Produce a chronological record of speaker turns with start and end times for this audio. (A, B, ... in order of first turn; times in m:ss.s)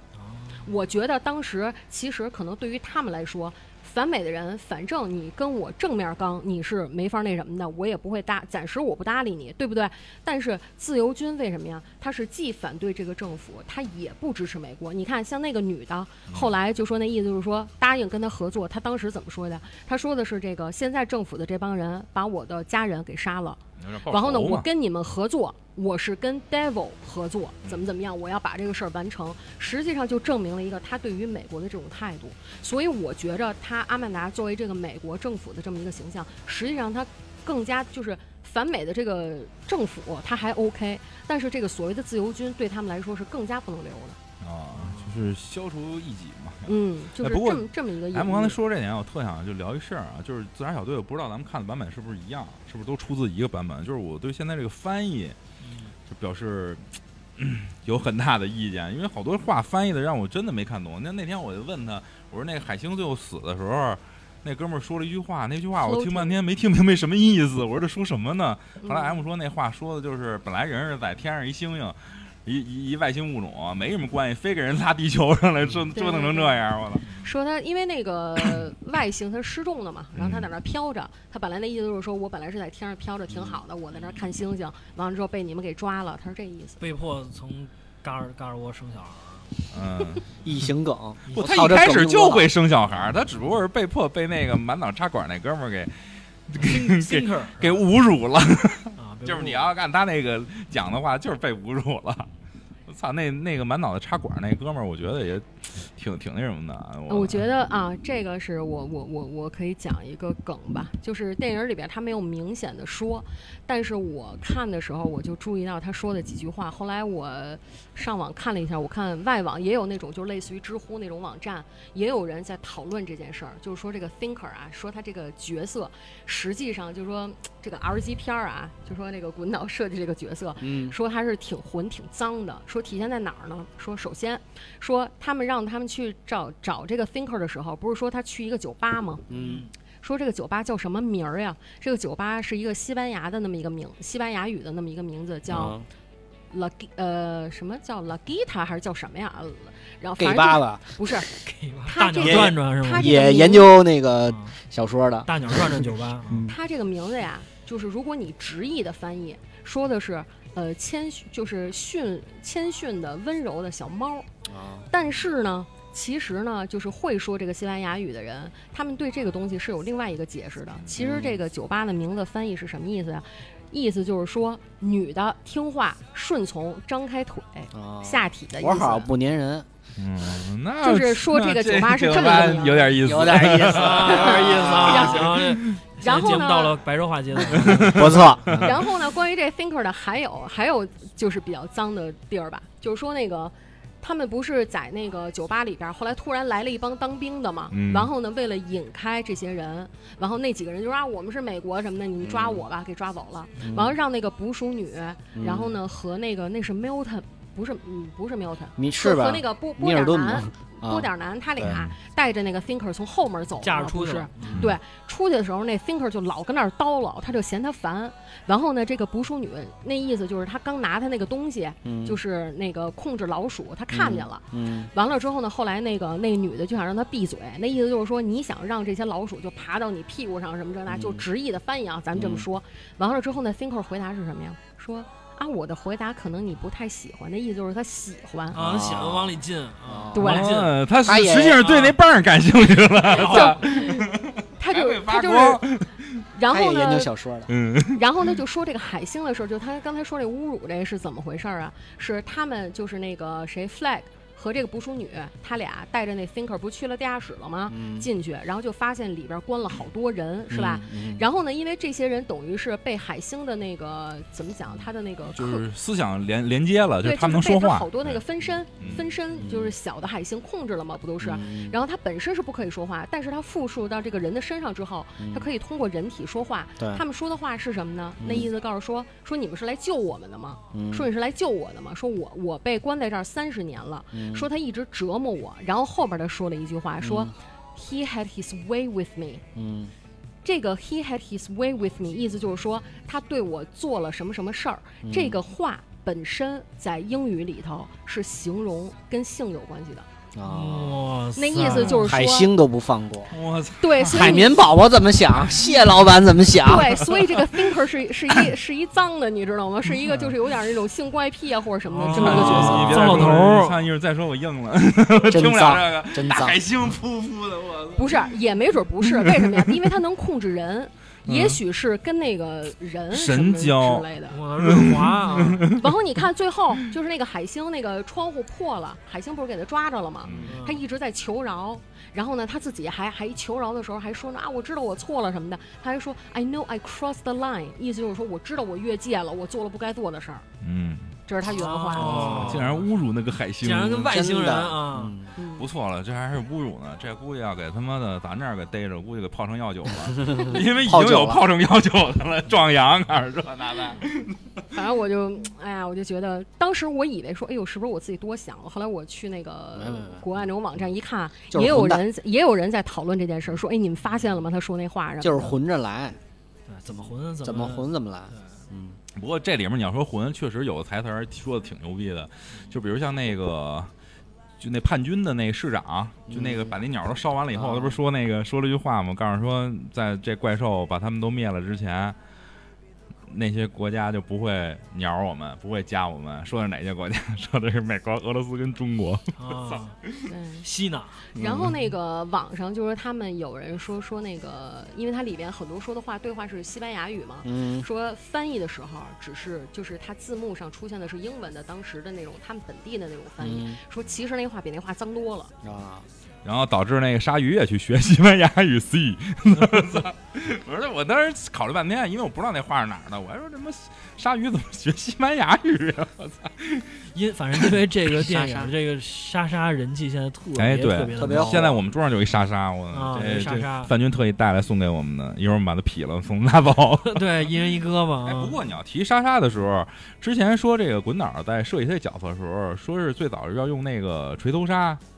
0:00.1-0:00.7 A
0:00.6-0:44.2 B
0:23.8-0:24.7 C
0:44.4-0:55.4 C
0:44.7-0:45.2 A
0:46.6-0:48.6 B
0:55.6-0:55.9 A
0:56.1-1:17.0 C
1:05.8-1:06.4 B
1:08.8-1:09.2 B
1:15.9-1:16.6 B
1:17.0-1:17.3 A
1:17.2-1:26.8 B
1:20.1-1:20.5 C
1:26.8-1:29.5 A
1:29.7-1:30.2 C
1:30.4-1:32.5 D
1:31.3-1:35.9 C
1:36.5-1:42.3 C
1:36.6-1:37.8 A
1:39.0-1:39.7 A
1:42.9-1:47.4 C
1:47.1-2:19.2 B
2:10.6-2:11.0 D
2:19.3-2:19.6 D
2:19.3-2:19.7 A
2:20.0-2:25.8 B
2:25.5-2:25.8 D
2:26.5-2:31.3 B
2:30.2-2:30.8 D
2:31.3-2:33.2 A
2:31.8-2:33.8 B
2:32.2-2:36.5 D
2:34.3-2:34.5 A
2:35.2-2:36.5 A
2:36.5-2:44.3 B
2:44.4-2:44.9 D
2:44.9-2:59.1 B
2:50.9-2:51.4 D
2:57.7-2:59.7 D
3:00.0-3:04.3 C
3:00.8-3:03.0 B
3:03.0-3:05.4 D
3:03.6-3:08.2 A
3:04.0-3:05.4 B
3:06.0-3:06.8 B
3:07.5-3:08.7 C
3:07.6-3:08.7 D
3:08.6-3:58.6 B
3:17.7-3:18.1 C
3:22.2-3:22.6 D
3:23.6-3:24.0 D
3:25.3-3:25.8 D
3:28.8-3:31.8 D
3:31.6-3:31.9 C
3:33.6-3:34.6 A
3:34.4-3:34.7 D
3:34.5-3:34.8 C
3:41.8-3:42.2 D
3:43.9-3:44.9 D
3:50.9-3:51.2 D
3:52.1-3:52.4 D
3:58.5-4:00.3 D
3:58.5-4:00.8 A
4:00.1-4:00.5 B
4:00.2-4:06.2 C
4:01.0-4:01.7 D
4:01.6-4:02.0 A
4:03.0-4:03.6 A
4:03.2-4:04.0 B
4:04.6-4:05.6 B
4:06.3-4:07.1 B
4:06.5-4:07.5 D
4:07.5-4:08.0 C
4:07.9-4:25.6 B
4:17.7-4:18.1 D
4:20.5-4:21.2 D
4:25.3-4:28.2 C
4:27.0-4:49.4 B
4:28.8-4:29.0 C
4:29.4-4:29.7 D
4:31.2-4:31.8 D
4:35.2-4:35.5 D
4:38.2-4:38.5 D
4:40.7-4:41.1 D
4:44.1-4:44.5 D
4:47.0-4:47.3 D
4:49.5-4:49.9 D
4:50.4-5:00.1 B
4:55.0-4:55.4 D
5:00.3-5:01.1 D
5:00.4-5:02.1 A
5:01.3-5:02.5 B
5:01.7-5:03.4 D
5:03.3-5:04.5 C
5:03.8-5:04.6 B
5:04.0-5:07.1 D
5:06.6-5:13.3 B
5:12.0-5:18.2 C
5:12.0-5:13.9 A
5:12.3-5:13.1 D
5:15.3-5:16.6 D
5:18.0-5:24.4 B
5:19.0-5:19.8 C
5:21.2-5:21.6 C
5:23.1-5:24.0 C
5:24.3-5:25.7 A
5:24.6-5:25.8 C
5:25.8-5:40.4 B
5:30.2-5:30.5 C
5:30.2-5:30.6 D
5:30.4-5:30.8 A
5:40.6-5:41.2 C
5:41.3-5:42.7 B
5:41.5-5:42.9 A
5:42.0-5:44.1 C
5:43.6-5:45.2 A
5:44.0-5:45.3 D
5:45.4-5:45.7 B
5:45.6-5:54.5 C
5:50.0-5:51.4 D
5:54.7-6:05.5 B
5:59.7-6:00.3 D
6:01.5-6:02.0 D
6:05.2-6:06.2 D
6:06.7-6:08.6 A
6:06.9-6:09.0 D
6:09.2-6:13.9 C
6:14.6-6:22.2 C
6:16.3-6:16.8 D
6:17.5-6:18.0 D
6:23.3-6:29.8 C
6:29.4-6:30.0 A
6:30.3-6:30.7 B
6:30.6-6:31.2 A
6:31.4-6:31.7 D
6:31.4-6:45.5 B
6:37.4-6:37.9 D
6:43.4-6:43.8 D
6:45.6-6:46.1 D
6:46.4-6:57.0 C
6:57.1-7:01.6 A
6:58.2-6:58.7 D
7:00.5-7:07.5 C
7:01.1-7:01.8 D
7:02.9-7:03.9 A
7:07.0-7:08.6 A
7:08.2-7:15.0 C